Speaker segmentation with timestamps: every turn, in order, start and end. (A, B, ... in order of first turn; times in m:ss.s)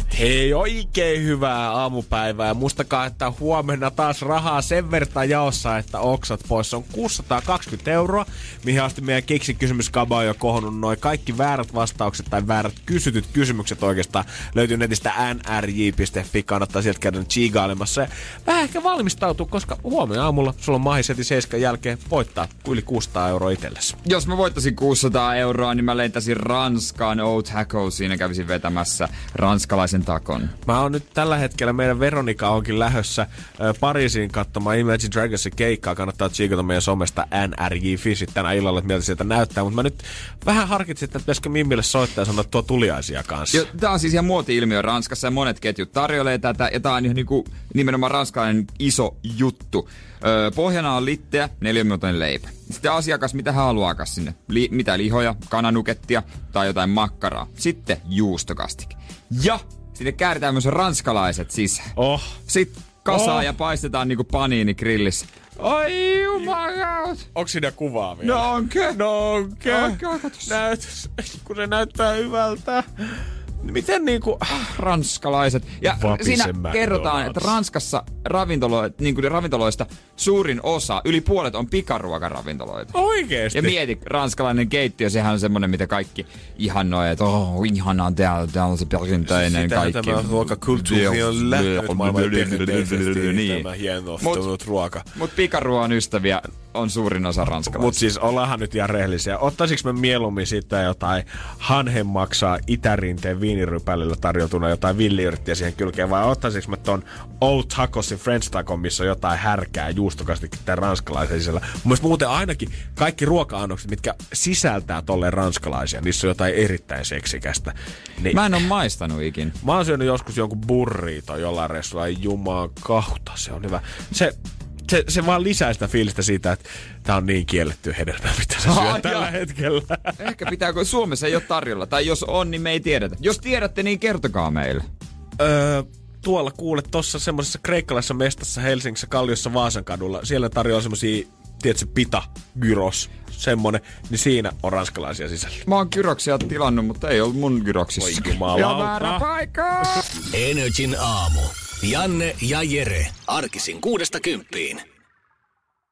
0:00.1-0:24.0 A
0:24.0-0:30.6 B
0:30.7-0:43.7 A
0:43.5-1:01.9 B
1:02.0-1:02.4 A
1:02.5-1:07.3 B
1:03.1-1:03.5 A
1:07.3-1:14.7 A
1:08.2-1:09.0 B
1:09.6-1:10.6 B
1:14.5-1:23.0 B
1:15.9-1:17.6 A
1:22.9-1:23.8 A
1:23.5-1:33.7 B
1:29.3-1:35.1 A
1:34.2-1:34.5 B
1:35.1-1:38.0 B
1:37.7-1:58.6 A
1:58.3-1:59.6 B
1:59.6-2:10.2 A
2:08.6-2:09.3 B
2:10.2-2:14.9 B
2:15.4-2:25.6 A
2:25.7-2:30.0 B
2:28.0-2:29.3 A
2:30.3-2:34.8 C